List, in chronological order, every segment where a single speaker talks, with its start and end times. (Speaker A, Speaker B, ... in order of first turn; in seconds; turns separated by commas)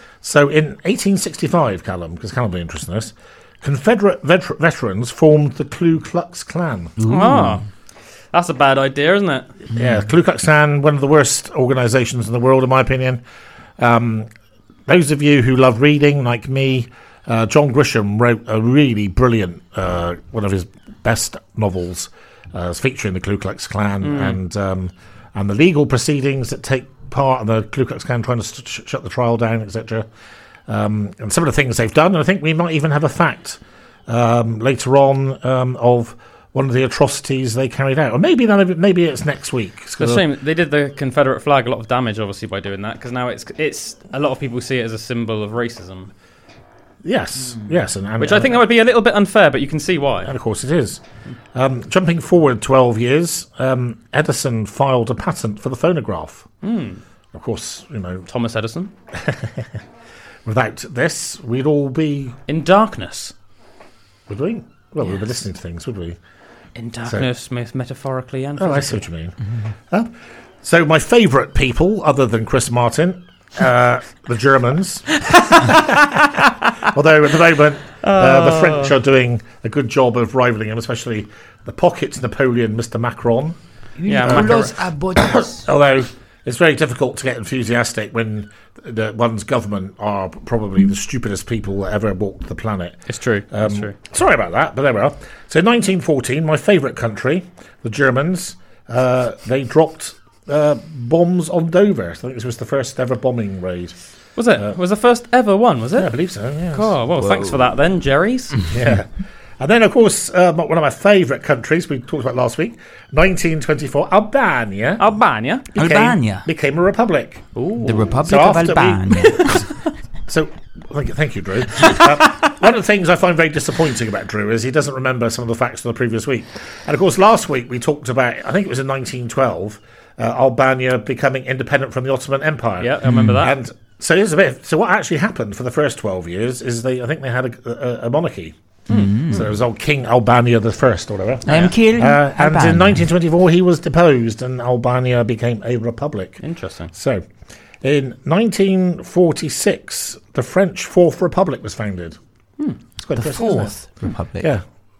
Speaker A: 0.2-6.9, Speaker B: 7.0-7.6, Speaker C: 7.0-7.6, Speaker C: 8.3-9.5, Speaker A: 9.7-13.2, Speaker A: 13.8-14.3, Speaker A: 14.9-30.1, Speaker C: 24.0-24.4, Speaker A: 30.7-40.3, Speaker C: 40.0-46.1, Speaker A: 47.0-48.7, Speaker C: 48.2-50.3, Speaker A: 50.2-51.0, Speaker A: 51.5-56.5, Speaker C: 56.6-57.0, Speaker A: 57.3-58.3, Speaker C: 58.3-58.9, Speaker A: 59.2-59.6, Speaker A: 60.4-62.4, Speaker C: 62.5-63.3, Speaker A: 64.3-66.2, Speaker C: 66.8-69.0, Speaker A: 68.6-69.4, Speaker A: 70.6-76.0, Speaker C: 75.5-76.3, Speaker A: 76.8-83.5, Speaker C: 78.0-78.9, Speaker B: 84.0-85.7, Speaker C: 84.0-84.7, Speaker A: 84.2-103.9, Speaker C: 93.1-93.9, Speaker C: 104.3-106.1, Speaker A: 106.0-107.0, Speaker C: 106.7-108.6, Speaker B: 107.2-107.7, Speaker A: 108.7-115.0, Speaker C: 115.0-115.8, Speaker B: 115.7-116.5, Speaker A: 115.7-117.4, Speaker C: 117.5-118.2, Speaker B: 117.8-119.7, Speaker A: 118.2-119.6, Speaker A: 120.3-138.5, Speaker C: 132.8-133.6, Speaker B: 133.0-133.4, Speaker C: 138.9-139.4, Speaker B: 138.9-139.5, Speaker A: 139.3-147.2, Speaker B: 141.4-143.0, Speaker C: 146.4-146.9, Speaker A: 147.8-152.2, Speaker A: 153.0-153.8, Speaker B: 153.2-154.5